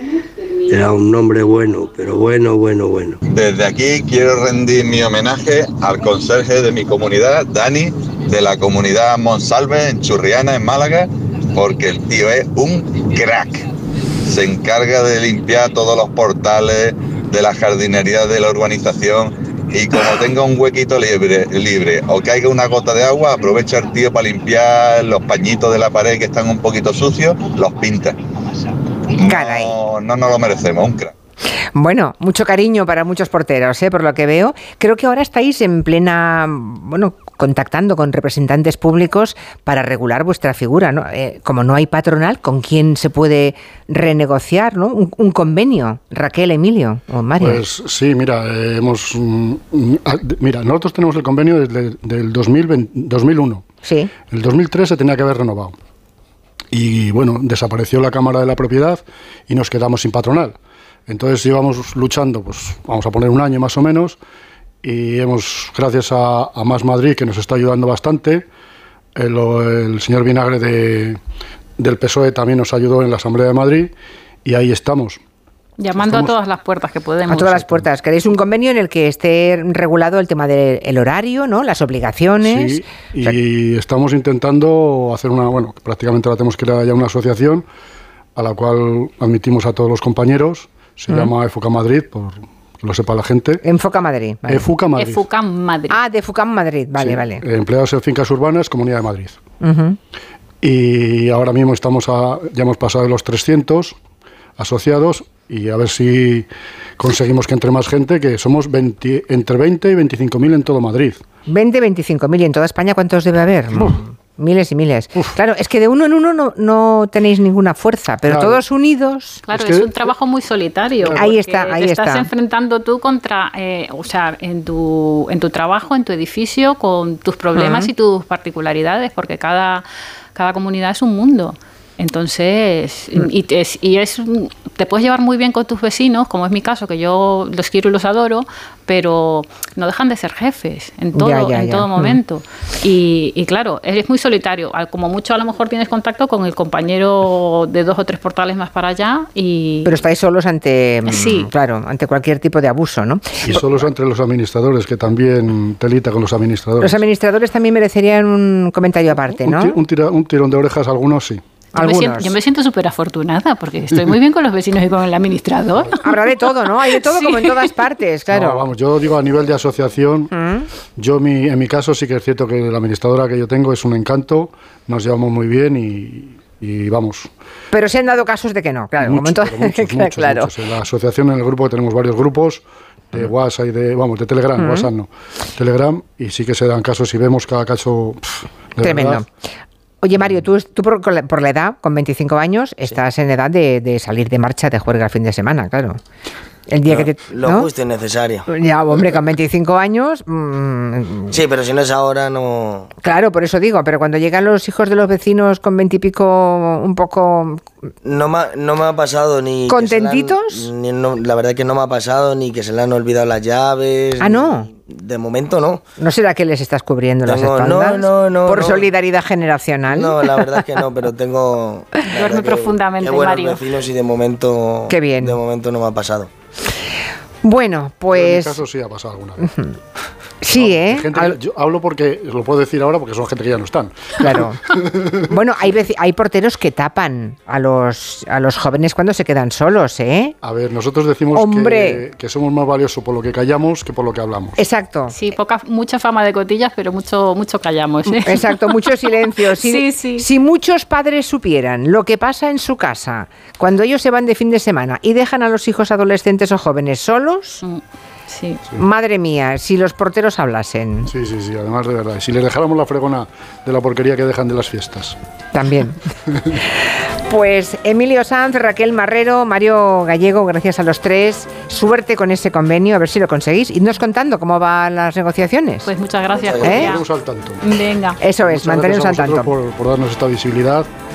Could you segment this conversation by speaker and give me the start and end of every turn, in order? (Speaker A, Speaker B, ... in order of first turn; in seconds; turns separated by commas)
Speaker A: 0.7-3.2, Speaker B: 3.3-13.6, Speaker B: 14.3-28.2, Speaker B: 29.2-31.1, Speaker C: 29.3-29.7, Speaker C: 31.7-47.6, Speaker D: 47.4-53.6, Speaker C: 53.8-54.1, Speaker D: 54.3-55.8, Speaker D: 56.7-64.2, Speaker D: 64.8-68.5, Speaker D: 69.2-71.2, Speaker D: 71.8-73.9, Speaker D: 74.4-75.2, Speaker E: 75.8-77.6, Speaker D: 76.0-76.3, Speaker C: 77.3-83.3, Speaker D: 82.4-87.7, Speaker D: 88.3-93.6, Speaker C: 93.6-94.7, Speaker D: 94.5-95.2, Speaker E: 95.0-96.0, Speaker C: 95.9-97.4, Speaker D: 97.0-99.4, Speaker C: 99.6-100.0, Speaker D: 100.6-104.0, Speaker D: 104.6-111.2, Speaker C: 111.5-119.4, Speaker D: 118.3-118.6, Speaker E: 119.5-149.9, Speaker D: 119.5-120.0, Speaker C: 121.1-122.3, Speaker C: 127.5-127.9, Speaker C: 141.1-142.2, Speaker C: 149.8-153.9, Speaker E: 151.1-151.5, Speaker D: 153.4-157.0, Speaker C: 156.8-159.8, Speaker D: 159.4-161.4, Speaker C: 161.7-162.3, Speaker E: 161.8-166.0, Speaker C: 166.0-168.7, Speaker E: 166.8-167.7, Speaker D: 168.3-170.3, Speaker C: 170.3-170.7, Speaker D: 171.0-177.3, Speaker C: 177.7-180.5, Speaker D: 179.0-189.2, Speaker C: 184.6-184.9, Speaker C: 188.8-189.3, Speaker C: 190.0-196.0, Speaker C: 196.7-197.7, Speaker F: 196.8-198.5, Speaker C: 198.5-201.4, Speaker F: 201.3-202.9, Speaker C: 203.0-207.7, Speaker F: 208.0-215.8, Speaker C: 209.7-210.7, Speaker C: 214.2-214.7, Speaker C: 216.0-220.7, Speaker F: 217.2-218.9, Speaker F: 219.9-226.3, Speaker E: 222.1-223.6, Speaker C: 224.9-225.4, Speaker C: 227.4-228.6, Speaker D: 228.1-229.5, Speaker C: 229.4-229.8, Speaker C: 230.4-231.4, Speaker D: 230.5-234.3, Speaker C: 234.2-234.6, Speaker C: 235.2-240.3, Speaker D: 240.4-244.6, Speaker C: 241.3-242.0, Speaker C: 244.6-245.2, Speaker E: 245.1-250.3, Speaker C: 248.1-257.6, Speaker E: 257.6-258.6, Speaker C: 258.7-261.1, Speaker D: 261.1-265.1, Speaker C: 265.5-266.0, Speaker C: 266.5-275.9, Speaker E: 275.8-277.1, Speaker F: 276.3-276.8, Speaker C: 276.6-276.9, Speaker D: 276.8-277.6, Speaker E: 277.6-278.2, Speaker C: 278.2-279.5, Speaker D: 278.4-280.9